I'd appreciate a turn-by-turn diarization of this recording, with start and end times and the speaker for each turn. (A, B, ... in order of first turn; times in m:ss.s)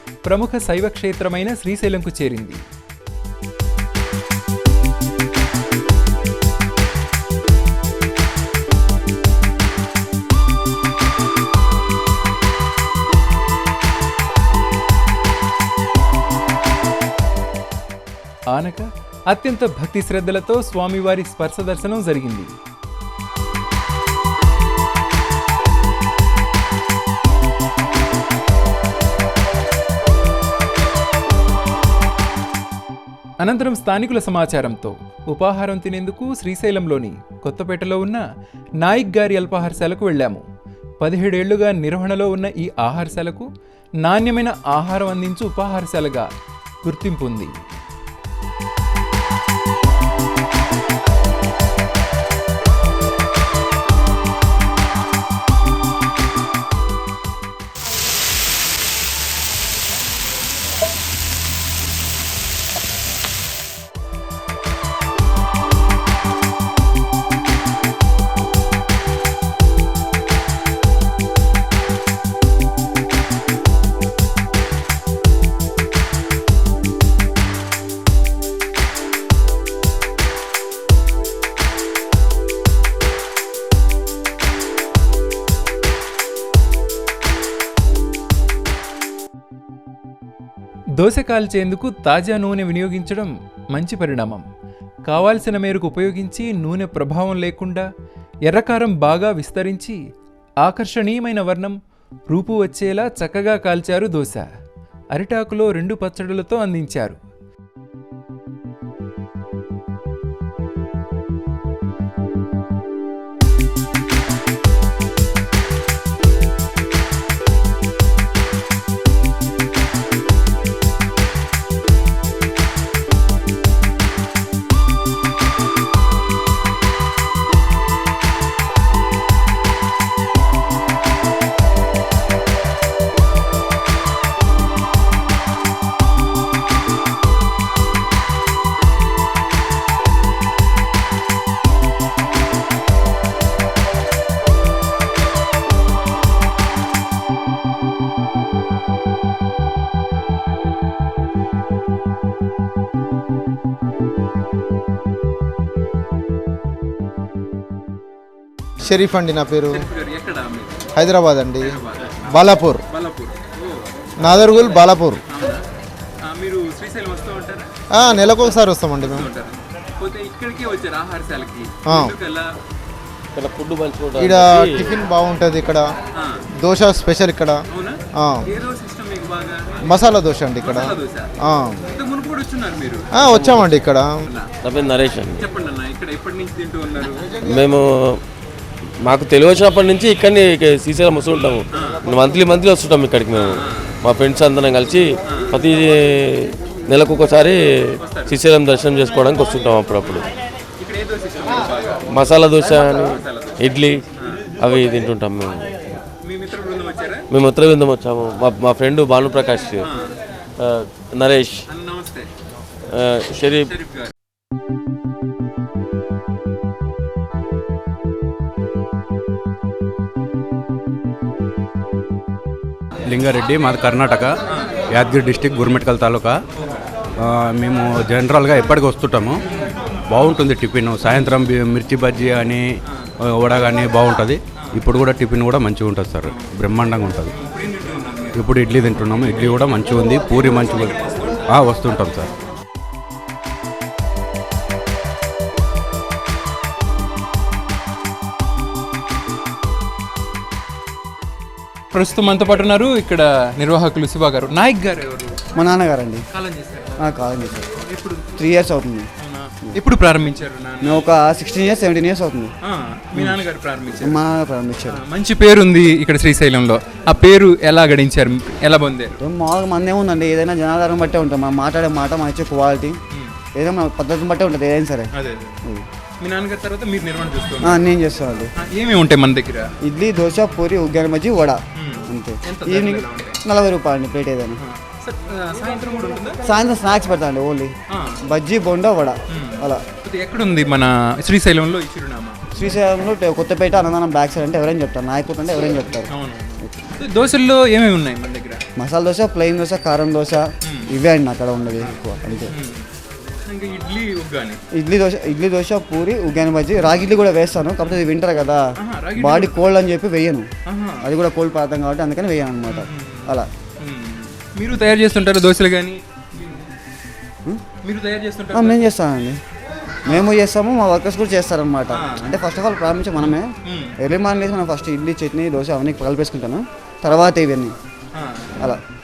0:00.2-0:02.6 A
0:18.5-0:22.5 A
0:33.4-0:38.2 A
0:38.8-0:40.4 A
0:41.0-0:43.5 A
0:44.0-0:46.3 A
0:46.8-0:47.5 A
1:31.0-1:34.4 A
1:35.1-1:37.8 A
1:38.5-1:40.0 A
1:40.6-1:41.8 A
1:42.3-1:44.5 A
1:45.1-1:47.2 A
2:38.8-2:39.8 B
2:39.7-2:40.7 A
2:41.0-2:41.7 B
2:41.6-2:43.5 A
2:42.3-2:42.8 B
2:44.2-2:45.2 B
2:45.3-2:45.6 A
2:46.2-2:47.7 A
2:47.9-2:49.3 B
2:48.4-2:52.5 A
2:51.9-2:52.1 B
2:53.4-2:55.0 C
2:54.2-2:55.9 B
2:56.2-2:56.4 A
2:56.6-2:57.6 B
2:57.7-2:59.6 A
2:59.9-3:01.8 B
3:00.6-3:01.3 A
3:01.9-3:03.0 A
3:03.2-3:04.1 B
3:03.3-3:03.8 C
3:04.6-3:05.4 C
3:05.4-3:07.3 A
3:07.4-3:08.2 C
3:09.0-3:17.6 C
3:11.7-3:12.0 A
3:13.4-3:13.6 A
3:15.3-3:15.6 A
3:18.0-3:18.4 A
3:18.3-3:20.2 C
3:20.8-3:22.1 A
3:22.1-3:24.0 C
3:23.0-3:23.6 A
3:24.6-3:25.9 C
3:26.2-3:27.2 A
3:27.3-3:29.9 C
3:29.8-3:30.1 A
3:30.6-3:31.6 C
3:31.7-3:32.3 A
3:32.9-3:33.7 C
3:33.7-3:34.1 A
3:43.1-3:44.3 D
3:44.9-3:46.4 D
3:47.2-3:49.4 D
3:50.1-3:52.7 D
3:53.2-3:57.3 D
3:57.3-3:58.4 A
3:58.4-4:02.3 D
4:00.5-4:01.4 A
4:11.9-4:15.4 A
4:15.6-4:16.2 E
4:16.3-4:17.1 A
4:17.0-4:17.7 E
4:17.8-4:18.3 A
4:18.4-4:19.1 E
4:19.2-4:21.0 A
4:20.8-4:22.5 E
4:22.6-4:24.2 A
4:24.0-4:25.0 E
4:24.9-4:29.2 A
4:29.2-4:33.0 E
4:33.6-4:35.1 E
4:35.2-4:35.6 A
4:36.2-4:37.8 A
4:37.6-4:38.5 E
4:38.6-4:39.7 A
4:39.8-4:44.6 E
4:41.8-4:43.4 A
4:44.6-4:46.4 A
4:46.4-4:47.7 E
4:47.9-4:48.2 A
4:48.3-4:49.8 E
4:49.3-4:52.4 A
4:52.6-4:56.1 E
4:56.1-4:58.6 A
4:58.8-5:02.5 E
5:00.6-5:00.9 A
5:01.8-5:02.9 A
5:03.5-5:04.6 A
5:04.8-5:08.6 E
5:08.8-5:09.6 A
5:09.2-5:10.5 E
5:10.7-5:11.0 A
5:11.0-5:13.5 E
5:12.7-5:16.5 A
5:17.8-5:18.8 A
5:18.5-5:19.4 E
5:20.1-5:27.8 E
5:21.9-5:22.2 A
5:23.6-5:23.9 A
5:28.1-5:28.5 A